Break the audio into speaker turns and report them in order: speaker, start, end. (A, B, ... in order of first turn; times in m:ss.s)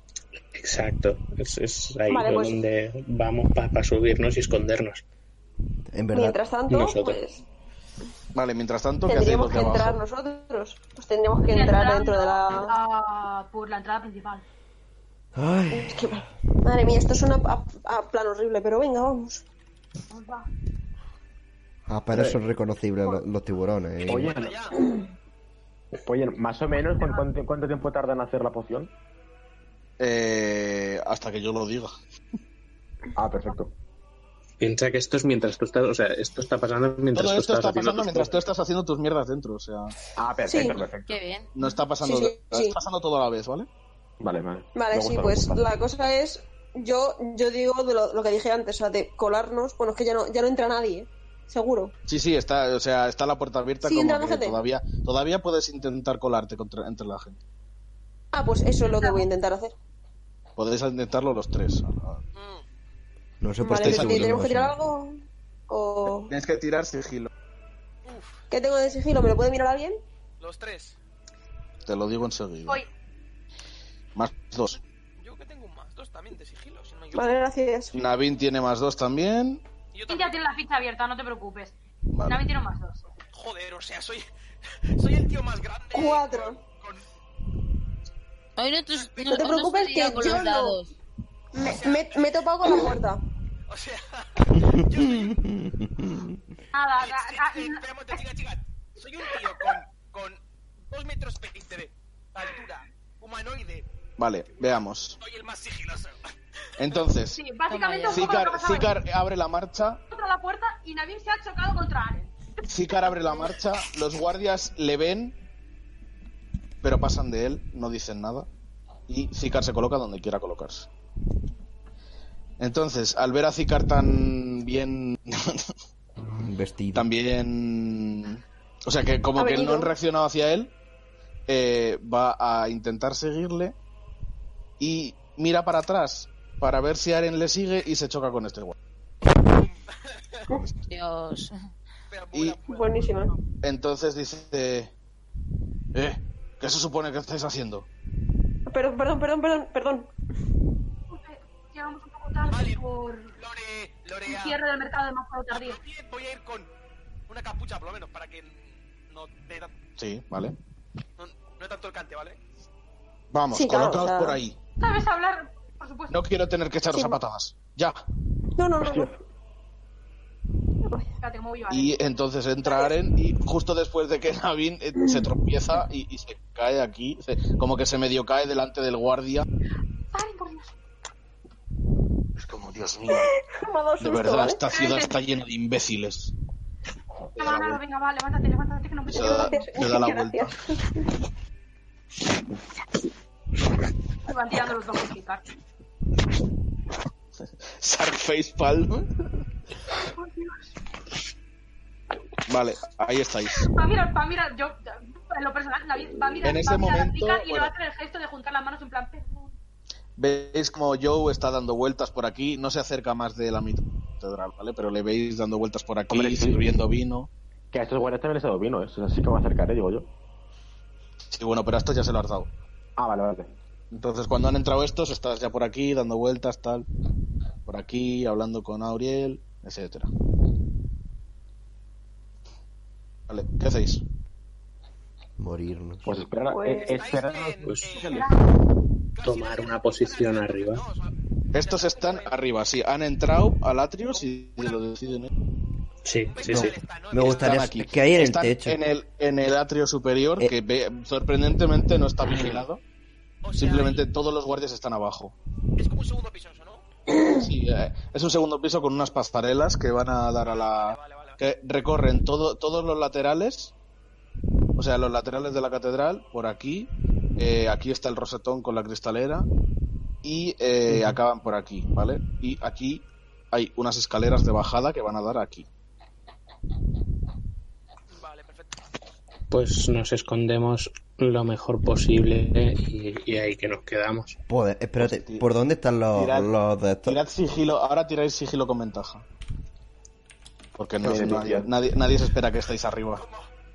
0:00.6-0:05.0 A
0:02.1-0:02.6 B
0:05.9-0:06.4 C
0:06.1-0:07.4 B
0:06.7-0:07.2 A
0:08.3-0:10.0 D
0:09.1-0:12.8 B
0:11.5-0:14.4 E
0:15.4-0:16.2 C
0:15.7-0:19.4 B
0:20.1-0:20.5 E
0:21.9-0:24.4 C
0:24.1-0:24.8 F
0:24.2-0:24.8 G
0:26.0-0:28.9 F
0:30.0-0:31.9 D
0:33.2-0:33.7 F
0:34.6-0:38.4 A
0:37.1-0:39.9 D
0:40.2-0:41.2 F
0:40.5-0:40.8 B
0:40.6-0:41.5 H
0:41.5-0:43.7 D
0:42.0-0:42.8 B
0:44.2-0:45.6 F
0:44.7-0:51.9 B
0:52.1-0:57.4 D
0:53.8-0:54.6 B
0:58.3-0:59.7 B
0:59.0-0:59.2 E
1:00.6-1:02.2 D
1:02.4-1:02.6 G
1:03.4-1:04.8 C
1:03.6-1:06.3 B
1:03.8-1:04.4 D
1:06.3-1:07.3 D
1:08.0-1:08.4 G
1:08.5-1:10.0 B
1:10.4-1:11.0 G
1:11.9-1:12.9 D
1:14.2-1:14.8 D
1:15.2-1:17.4 G
1:17.1-1:18.0 B
1:17.9-1:19.6 D
1:19.9-1:20.4 G
1:20.1-1:23.0 E
1:22.1-1:22.4 D
1:23.3-1:24.3 G
1:25.0-1:27.0 G
1:25.9-1:26.6 B
1:28.6-1:30.9 H
1:29.0-1:29.4 G
1:29.3-1:30.8 B
1:31.5-1:33.2 B
1:31.6-1:32.2 G
1:33.7-1:35.5 G
1:35.0-1:36.4 C
1:36.7-1:37.8 E
1:37.0-1:43.9 G
1:44.2-1:45.2 D
1:45.2-1:46.2 G
1:46.8-1:47.4 D
1:47.3-1:48.9 E
1:47.7-1:48.4 H
1:48.1-1:50.0 D
1:50.1-1:52.3 E
1:52.7-1:55.4 D
1:53.1-1:53.5 E
1:56.8-1:58.5 D
1:59.1-2:00.9 D
2:02.6-2:05.7 D
2:06.4-2:07.1 C
2:06.9-2:10.7 D
2:09.4-2:09.9 B
2:11.5-2:13.8 D
2:14.8-2:18.8 D
2:19.5-2:20.4 G
2:20.9-2:21.6 H
2:22.1-2:23.5 G
2:22.3-2:22.6 D
2:22.6-2:23.3 B
2:23.6-2:24.9 D
2:25.9-2:27.9 D
2:28.7-2:30.1 B
2:31.1-2:33.4 E
2:32.4-2:32.8 G
2:33.4-2:34.6 G
2:34.3-2:35.8 E
2:35.5-2:36.7 G
2:37.3-2:39.8 G
2:40.0-2:40.6 D
2:41.2-2:42.4 G
2:43.3-2:44.6 D
2:43.5-2:44.4 B
2:44.8-2:46.2 E
2:46.1-2:48.0 D
2:46.9-2:47.2 B
2:48.6-2:49.1 B
2:48.8-2:49.1 F
2:51.2-2:52.0 E
2:51.7-2:59.5 D
3:00.1-3:00.7 E
3:02.4-3:03.3 D
3:03.1-3:04.6 B
3:04.0-3:06.3 D
3:04.7-3:05.1 E
3:07.4-3:07.8 D
3:07.4-3:09.6 E
3:09.1-3:10.5 D
3:09.1-3:11.1 B
3:14.3-3:15.4 E
3:17.8-3:19.1 D
3:20.2-3:20.6 E
3:22.5-3:23.7 D
3:23.6-3:29.5 E
3:26.4-3:27.8 D
3:30.2-3:37.3 D
3:36.1-3:36.6 F
3:37.7-3:40.1 F
3:41.3-3:42.5 D
3:43.0-3:43.5 F
3:43.9-3:46.9 D
3:47.7-3:50.1 D
3:53.3-3:54.0 D
3:55.4-3:56.1 C
3:56.0-3:58.3 F
3:56.5-3:57.0 B
3:56.9-3:58.3 G
3:57.6-3:58.0 A
3:58.0-3:58.4 E
3:59.2-4:02.4 G
3:59.2-4:00.8 A
4:01.5-4:05.3 D
4:04.2-4:04.8 G
4:06.0-4:06.8 A
4:06.3-4:07.7 G
4:06.4-4:08.8 C
4:07.3-4:12.8 D
4:13.4-4:14.1 G
4:13.6-4:15.4 D
4:15.8-4:16.8 G
4:17.3-4:23.7 D
4:20.4-4:21.4 G
4:24.8-4:29.5 D
4:30.2-4:35.7 D
4:38.1-4:38.8 G
4:39.5-4:44.4 A
4:44.5-4:47.2 C
4:45.0-4:45.5 D
4:46.1-4:46.5 D
4:47.0-4:49.2 D
4:50.8-4:53.2 D
4:51.0-4:51.7 F
4:53.2-4:53.5 G